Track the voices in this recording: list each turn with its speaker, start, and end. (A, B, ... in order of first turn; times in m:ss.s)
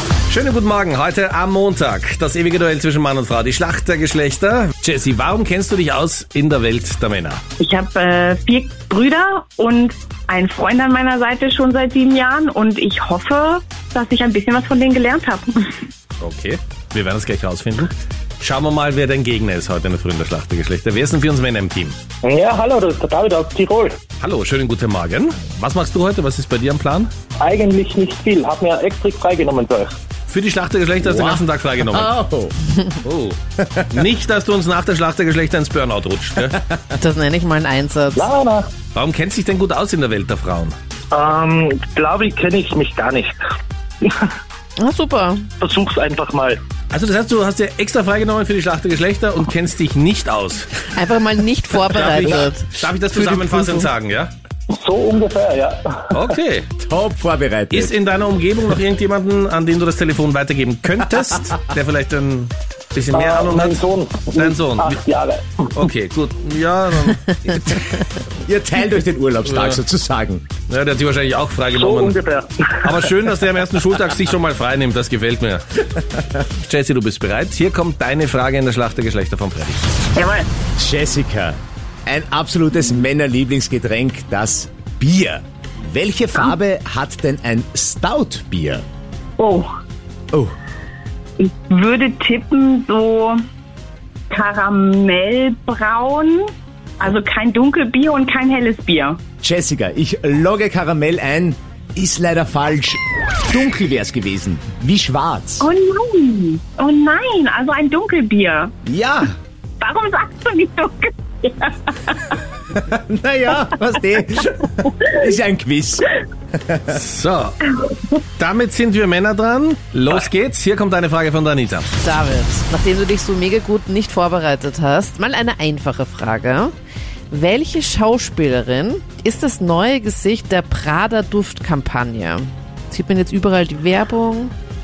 0:00.3-0:07.4 A
0:07.6-0:15.8 B
0:16.2-0:22.0 A
0:22.2-0:24.0 C
0:24.2-0:27.1 A
0:27.4-0:30.0 C
0:30.3-0:32.2 A
0:31.0-0:32.6 D
0:33.0-0:33.4 A
0:33.6-0:34.0 D
0:33.9-0:36.6 A
0:37.0-0:38.3 E
0:38.2-0:38.7 C
0:38.9-0:40.8 A
0:41.1-0:43.3 C
0:44.0-0:44.3 C
0:44.8-0:45.5 E
0:45.6-0:46.6 C
0:46.9-0:50.7 A
0:50.9-0:53.9 E
0:51.9-0:54.3 A
0:54.7-0:56.2 C
0:56.1-0:56.7 A
0:56.8-0:57.9 D
0:57.7-1:03.8 A
1:03.1-1:05.7 C
1:04.3-1:05.0 A
1:05.7-1:08.0 A
1:08.3-1:10.5 D
1:09.5-1:09.8 A
1:10.7-1:12.2 A
1:11.7-1:13.0 C
1:12.8-1:15.8 A
1:16.6-1:19.8 A
1:20.2-1:20.5 B
1:20.8-1:28.8 D
1:29.4-1:29.7 B
1:31.4-1:33.4 B
1:34.3-1:39.2 B
1:39.4-1:45.7 D
1:45.6-1:48.7 B
1:48.9-1:49.4 D
1:49.8-1:52.4 B
1:52.7-1:57.0 D
1:56.9-1:57.7 A
1:58.4-2:01.9 A
2:02.0-2:06.7 E
2:07.3-2:14.5 E